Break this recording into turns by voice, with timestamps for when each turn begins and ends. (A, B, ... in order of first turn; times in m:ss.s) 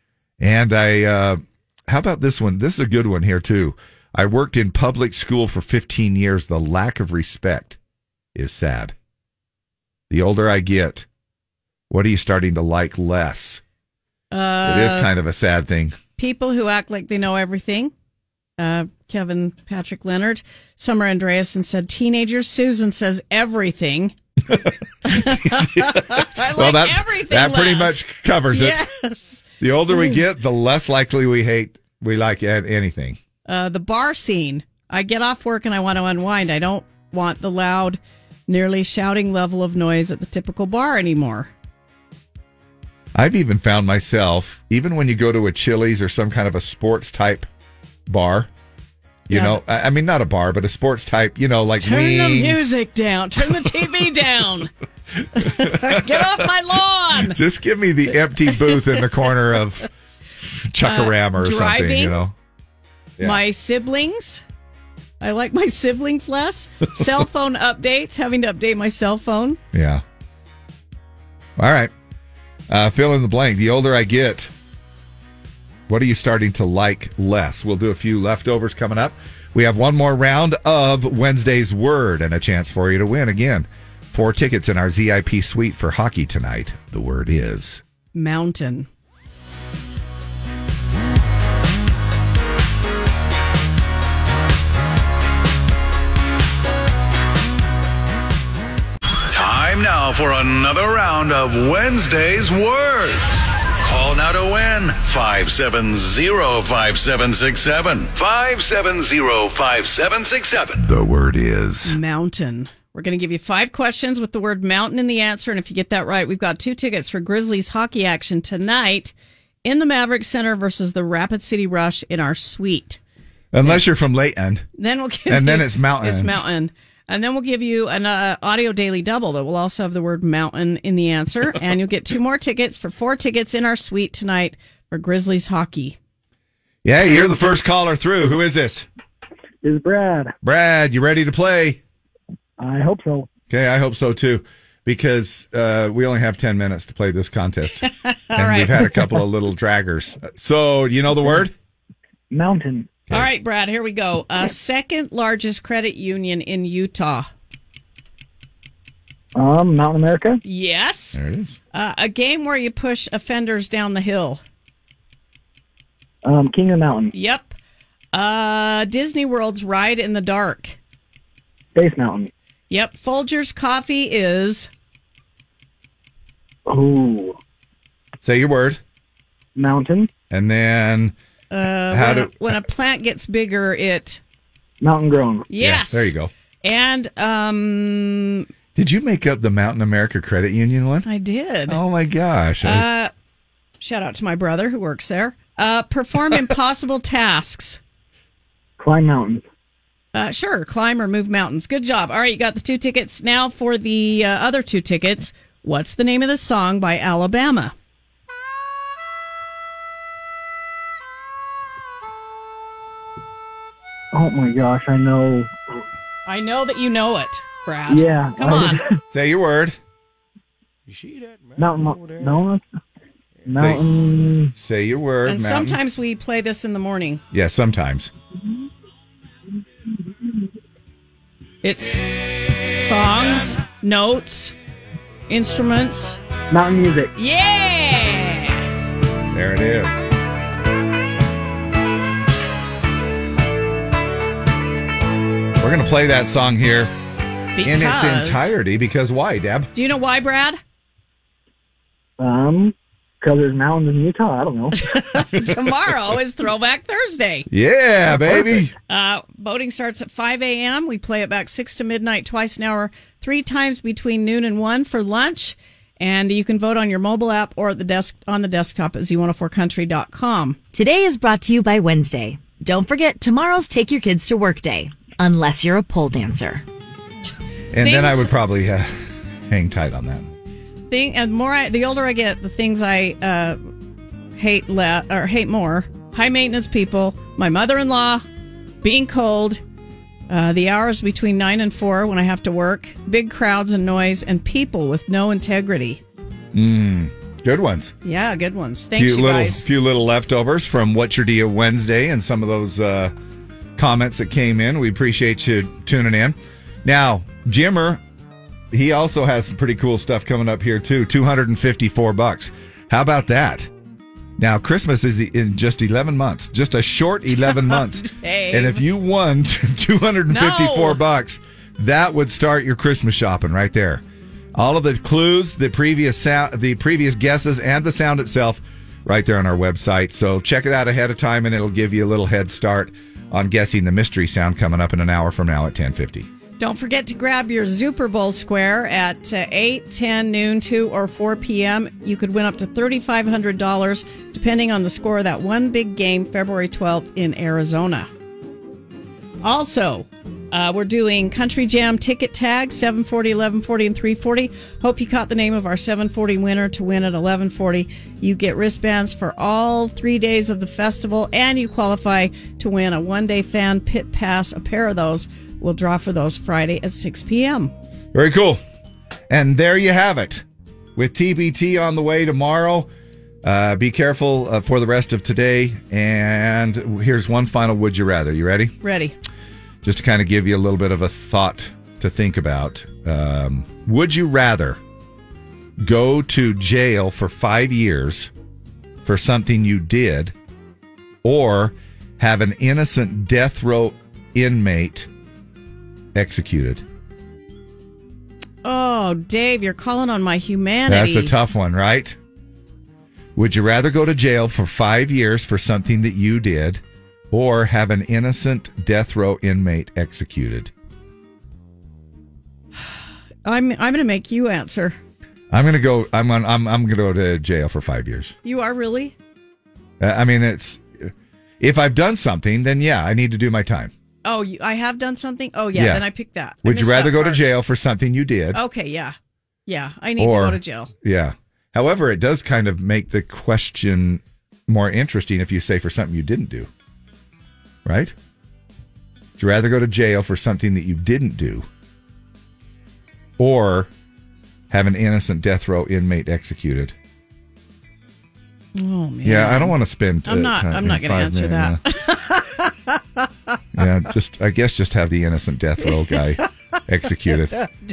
0:00.4-0:07.8 A
0:08.3-0:08.9 A
0:10.1-0:11.0 A
0:11.9-0:13.6 A
0:14.3-0:15.1 B
0:14.6-0:16.0 A
0:16.2-0:17.9 B
0:18.6-0:24.1 B
0:24.5-0:28.8 A
0:25.1-0:28.0 B
0:28.5-0:30.2 B
0:29.6-0:33.2 A
0:33.5-0:41.5 B
0:43.1-0:47.5 A
0:48.1-0:48.5 A
0:49.3-0:52.7 A
0:49.3-0:49.6 B
0:51.8-0:54.7 B
0:55.4-0:56.3 A
0:55.4-0:57.4 B
0:57.2-0:59.8 A
1:00.7-1:02.3 A
1:00.8-1:02.2 B
1:03.2-1:04.4 B
1:05.2-1:09.6 B
1:09.7-1:10.0 A
1:11.6-1:11.9 A
1:12.7-1:14.5 A
1:15.9-1:27.8 A
1:28.1-1:28.9 B
1:39.3-1:50.8 C
1:50.8-1:52.0 A
1:51.8-2:03.0 B
2:03.5-2:04.6 A
2:04.8-2:16.0 B
2:05.3-2:06.4 A
2:16.8-2:18.8 A
2:19.6-2:20.3 D
2:20.4-2:21.8 A
2:22.6-2:23.3 D
2:23.5-2:31.5 A
2:28.0-2:29.0 B
2:32.3-2:32.9 D
2:33.1-2:37.3 B
2:39.3-2:40.4 D
2:40.4-2:41.2 B
2:41.1-2:41.6 A
2:41.7-2:44.4 B
2:46.2-2:47.1 D
2:47.1-2:47.5 B
2:48.1-2:50.8 B
2:51.7-2:52.3 D
2:52.7-2:54.7 B
2:56.7-2:57.4 D
2:58.2-2:58.8 A
2:59.6-3:00.1 D
3:00.3-3:01.1 A
3:01.5-3:04.2 B
3:01.9-3:02.5 A
3:04.8-3:05.5 D
3:05.5-3:06.1 B
3:05.6-3:06.3 A
3:06.6-3:08.5 B
3:08.7-3:11.0 A
3:11.0-3:11.8 B
3:11.7-3:12.8 A
3:12.6-3:13.1 B
3:13.8-3:17.8 B
3:18.8-3:19.4 D
3:20.1-3:27.7 B
3:34.1-3:35.5 D
3:36.3-3:38.8 B
3:37.9-3:38.8 D
3:39.1-3:39.8 A
3:41.6-3:42.6 D
3:43.4-3:44.5 D
3:43.5-3:43.8 A
3:44.5-3:45.8 A
3:45.2-3:47.2 B
3:47.3-3:48.1 A
3:51.6-3:52.0 B
3:52.7-3:54.5 B
3:55.3-3:56.2 B
3:56.5-3:57.1 D
3:57.2-3:58.6 B
3:59.3-3:59.9 A
4:05.6-4:06.9 A
4:07.6-4:08.5 B
4:07.6-4:09.7 A
4:09.7-4:10.6 B
4:12.2-4:14.7 D
4:14.8-4:17.4 B
4:17.5-4:18.7 A
4:18.9-4:30.6 B
4:30.7-4:36.6 E
4:37.7-4:38.9 A
4:37.8-4:38.3 B
4:39.5-4:40.3 A
4:40.9-4:43.6 B
4:44.4-4:48.2 B
4:48.8-4:49.6 B
4:50.3-4:56.0 B
4:56.5-4:57.9 A
4:58.0-4:59.6 B
4:59.0-5:03.1 A
5:03.8-5:08.0 A
5:08.7-5:13.7 A
5:14.4-5:24.0 A
5:17.4-5:18.8 B
5:20.3-5:21.0 B
5:24.5-5:36.3 A
5:36.6-5:48.1 B
5:49.4-6:07.7 B
6:08.1-6:08.6 A
6:09.3-6:10.4 A
6:11.0-6:12.9 A
6:13.4-6:18.7 A
6:18.8-6:19.1 B
6:19.8-6:24.8 A
6:25.8-6:28.3 A
6:29.0-6:30.3 A
6:31.2-6:35.1 A
6:36.1-6:36.8 A
6:38.6-6:41.3 B
6:40.9-6:42.2 A
6:43.4-6:50.7 A
6:53.4-6:55.0 B
6:55.5-6:58.3 A
6:58.4-6:59.1 B
7:00.0-7:03.9 A
7:04.2-7:07.4 B
7:05.7-7:06.0 A
7:06.6-7:08.6 A
7:08.5-7:09.1 B
7:09.7-7:10.9 B
7:10.2-7:16.7 A
7:17.8-7:18.1 A
7:19.4-7:21.7 A
7:23.4-7:23.9 A
7:24.7-7:26.9 A
7:28.7-7:32.4 B
7:29.2-7:31.8 A
7:33.7-7:37.6 A